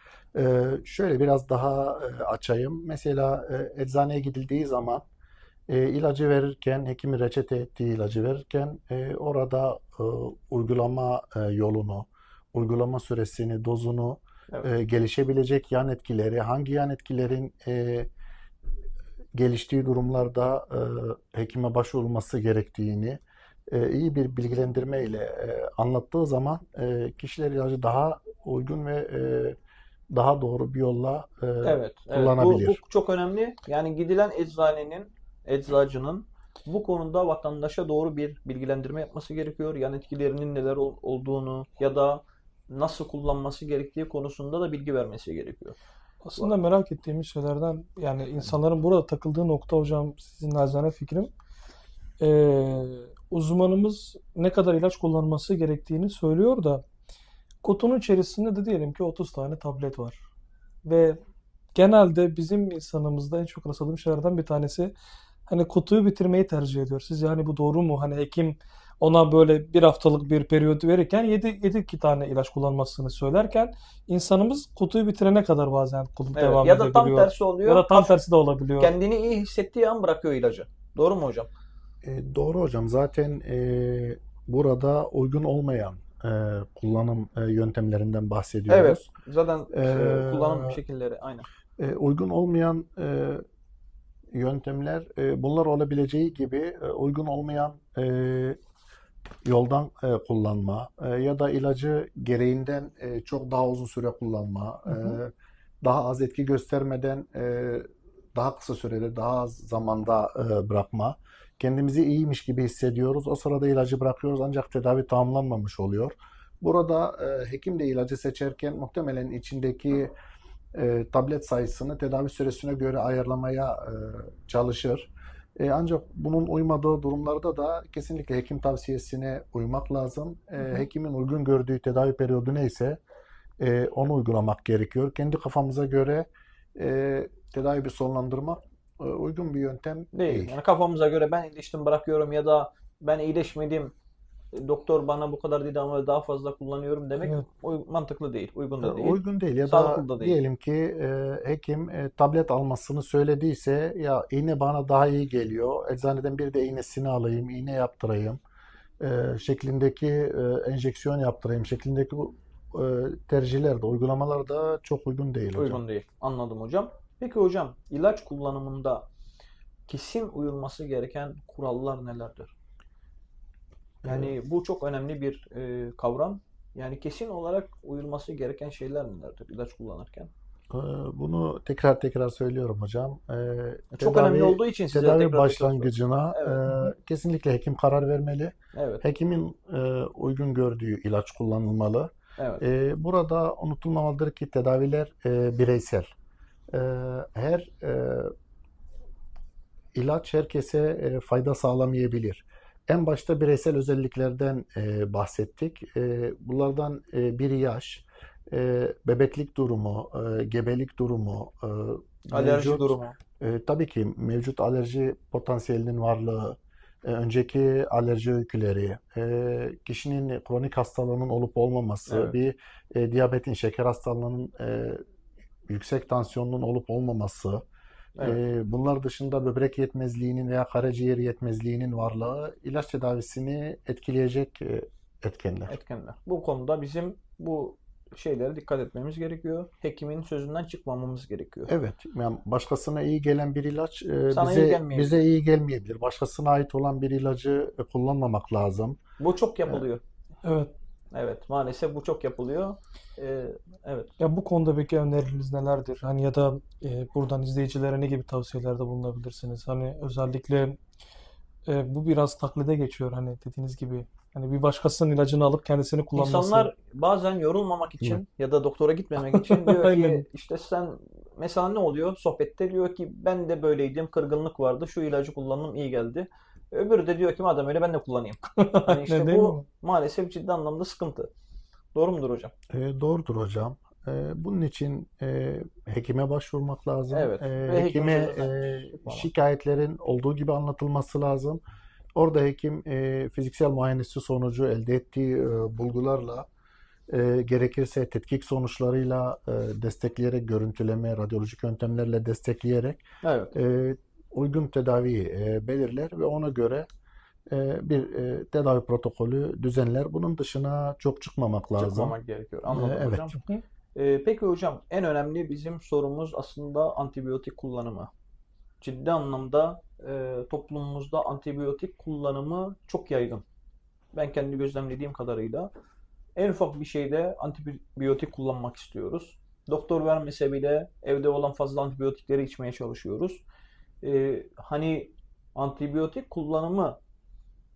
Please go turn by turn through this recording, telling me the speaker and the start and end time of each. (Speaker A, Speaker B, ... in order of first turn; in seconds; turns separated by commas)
Speaker A: 0.3-5.0, Speaker A: 5.7-18.1, Speaker A: 19.4-29.6, Speaker A: 30.1-32.8, Speaker B: 31.6-45.8, Speaker C: 46.2-51.3, Speaker C: 52.2-56.8, Speaker C: 57.6-60.2, Speaker C: 60.8-61.2, Speaker C: 61.8-64.9, Speaker C: 65.5-78.9, Speaker B: 76.3-78.1, Speaker B: 78.8-81.5, Speaker A: 82.0-89.1, Speaker B: 88.7-91.5, Speaker A: 89.7-90.8, Speaker A: 91.8-93.4, Speaker A: 94.3-98.6, Speaker A: 99.5-105.3, Speaker A: 105.8-120.1, Speaker A: 120.7-133.0, Speaker A: 133.6-140.6, Speaker B: 140.1-143.9, Speaker B: 144.5-150.4, Speaker A: 148.8-158.4, Speaker A: 159.0-165.8, Speaker B: 165.6-169.1, Speaker B: 169.9-172.5, Speaker A: 174.0-174.3, Speaker B: 174.0-180.3, Speaker A: 180.7-196.1, Speaker B: 183.9-186.6, Speaker B: 188.7-189.0, Speaker B: 192.4-192.6, Speaker A: 196.7-198.3, Speaker A: 199.9-225.0, Speaker B: 212.3-213.2, Speaker B: 222.1-222.3, Speaker A: 225.7-227.6, Speaker A: 228.2-235.8, Speaker B: 235.7-241.7, Speaker A: 241.7-249.0, Speaker B: 244.3-245.2, Speaker B: 249.2-250.0, Speaker C: 250.4-250.7, Speaker B: 251.1-254.1, Speaker C: 254.2-260.8, Speaker C: 261.7-266.7, Speaker B: 266.1-281.3, Speaker C: 269.3-270.2, Speaker C: 278.6-279.6, Speaker B: 281.9-282.5, Speaker A: 282.7-291.6, Speaker B: 287.1-289.3, Speaker A: 292.2-296.5, Speaker A: 297.1-303.0, Speaker B: 303.2-303.6, Speaker A: 303.5-306.9, Speaker A: 307.5-312.1, Speaker B: 311.8-313.4, Speaker A: 312.7-313.3, Speaker B: 313.9-318.1, Speaker B: 318.8-323.4, Speaker B: 324.1-325.7, Speaker B: 326.4-333.4, Speaker B: 334.0-337.0